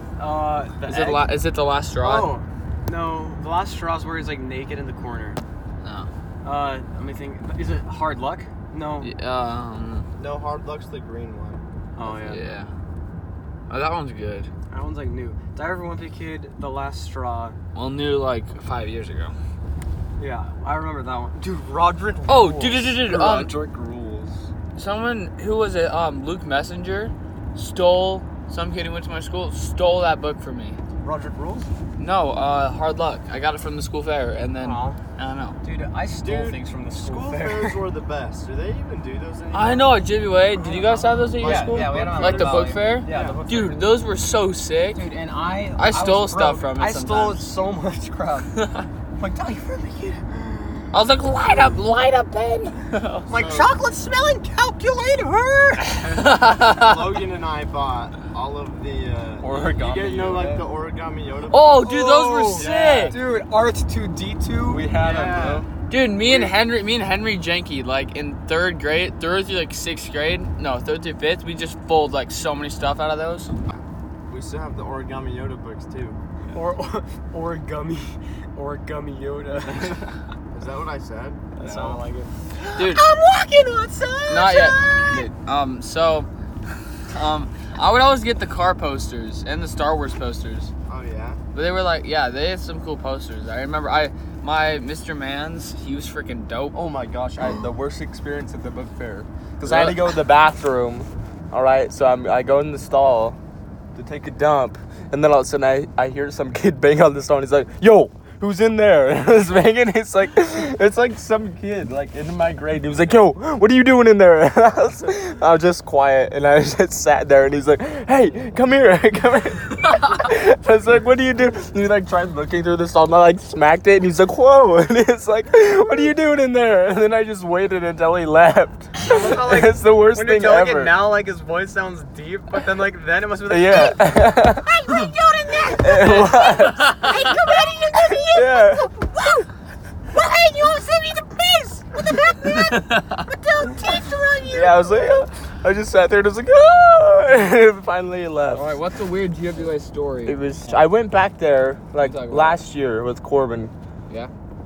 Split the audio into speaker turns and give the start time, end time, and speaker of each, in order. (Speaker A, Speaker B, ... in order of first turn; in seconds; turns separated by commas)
Speaker A: 0.2-1.3, Speaker B: 0.8-2.4, Speaker A: 2.0-5.4, Speaker B: 5.8-6.1, Speaker A: 6.4-9.1, Speaker B: 9.0-10.1, Speaker C: 10.2-11.6, Speaker A: 11.9-12.5, Speaker B: 12.0-12.7, Speaker B: 13.7-14.5, Speaker A: 14.7-17.6, Speaker B: 17.7-19.3, Speaker A: 20.2-23.0, Speaker B: 22.3-23.5, Speaker C: 23.1-24.5, Speaker B: 24.7-30.8, Speaker A: 31.0-31.7, Speaker B: 32.0-35.6, Speaker A: 34.6-35.0, Speaker A: 35.6-37.8, Speaker C: 36.2-40.0, Speaker B: 39.5-45.0, Speaker A: 40.6-43.9, Speaker C: 41.4-43.4, Speaker A: 44.9-48.5, Speaker B: 45.8-47.5, Speaker B: 48.6-48.9, Speaker A: 49.2-50.9, Speaker B: 50.9-53.3, Speaker A: 53.3-56.1, Speaker C: 53.3-53.7, Speaker B: 56.0-57.1, Speaker C: 56.5-63.2, Speaker D: 59.4-60.6, Speaker B: 61.5-63.1, Speaker A: 61.8-64.9, Speaker D: 64.6-65.7, Speaker C: 64.9-65.7, Speaker B: 65.9-73.8, Speaker C: 66.2-66.6, Speaker C: 74.3-76.2, Speaker A: 76.5-80.2, Speaker C: 80.5-82.0, Speaker A: 81.5-85.2, Speaker B: 82.7-83.0, Speaker B: 84.3-86.3, Speaker B: 87.1-90.7, Speaker C: 90.9-91.4, Speaker B: 91.5-96.7, Speaker D: 96.7-103.4, Speaker B: 99.6-100.1, Speaker D: 103.9-131.1, Speaker A: 129.0-139.4, Speaker D: 133.4-134.6, Speaker D: 135.8-137.3, Speaker D: 138.1-138.9, Speaker A: 140.1-145.2, Speaker B: 142.5-143.2, Speaker D: 144.4-148.8, Speaker B: 148.5-150.8, Speaker D: 150.2-153.7, Speaker B: 152.0-152.6